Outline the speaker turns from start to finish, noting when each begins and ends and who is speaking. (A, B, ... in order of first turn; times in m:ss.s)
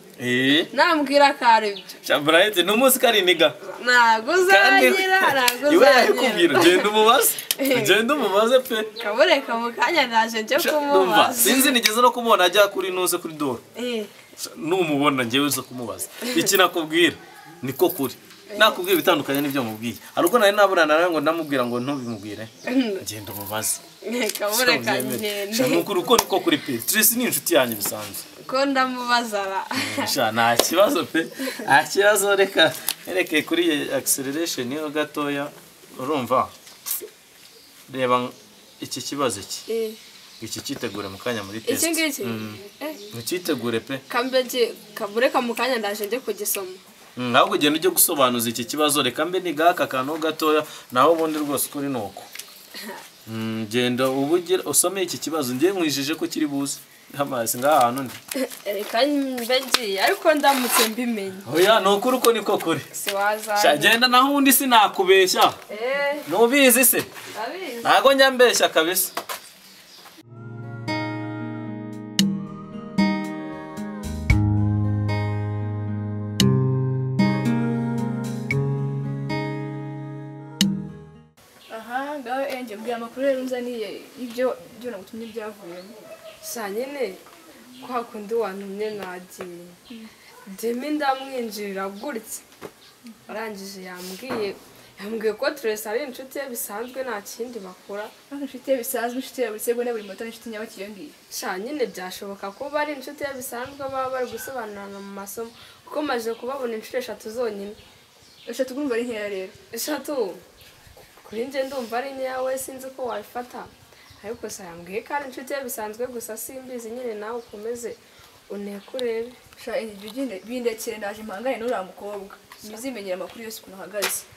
0:00.2-0:00.7 A
0:00.7-0:02.0 B
0:02.0-0:03.6 A
0:03.6-0:06.9 B
0:04.4-0:08.9 A
0:07.6-0:08.2 B
0:09.0-0:11.8 B
0:10.5-0:13.6 A
0:13.8-0:14.1 B
0:14.4-0:23.8 A
0:18.5-0:18.8 B
0:22.6-0:23.0 B
0:24.0-0:25.9 B
0:24.5-0:28.2 A
0:28.4-0:30.0 B
0:29.8-0:36.5 A
0:37.9-0:39.6 A
0:39.7-0:40.0 B
0:40.4-0:44.0 A
0:41.6-0:43.0 B
0:44.1-0:46.8 B
0:47.2-0:52.3 A
0:53.2-0:58.2 A
0:58.5-1:01.4 B
1:01.4-1:02.9 A
1:02.9-1:04.0 B
1:03.6-1:05.6 A
1:05.7-1:06.2 B
1:06.2-1:07.1 A
1:07.3-1:07.9 B
1:07.8-1:09.1 A
1:21.7-1:26.0 C
1:26.4-1:27.2 B
1:27.8-1:29.8 B
1:30.5-1:32.4 B
1:33.3-1:38.1 B
1:38.3-1:41.2 C
1:41.3-1:47.8 B
1:48.4-1:49.5 C
1:49.7-1:50.4 B
1:51.2-1:59.4 B
1:59.6-2:04.2 C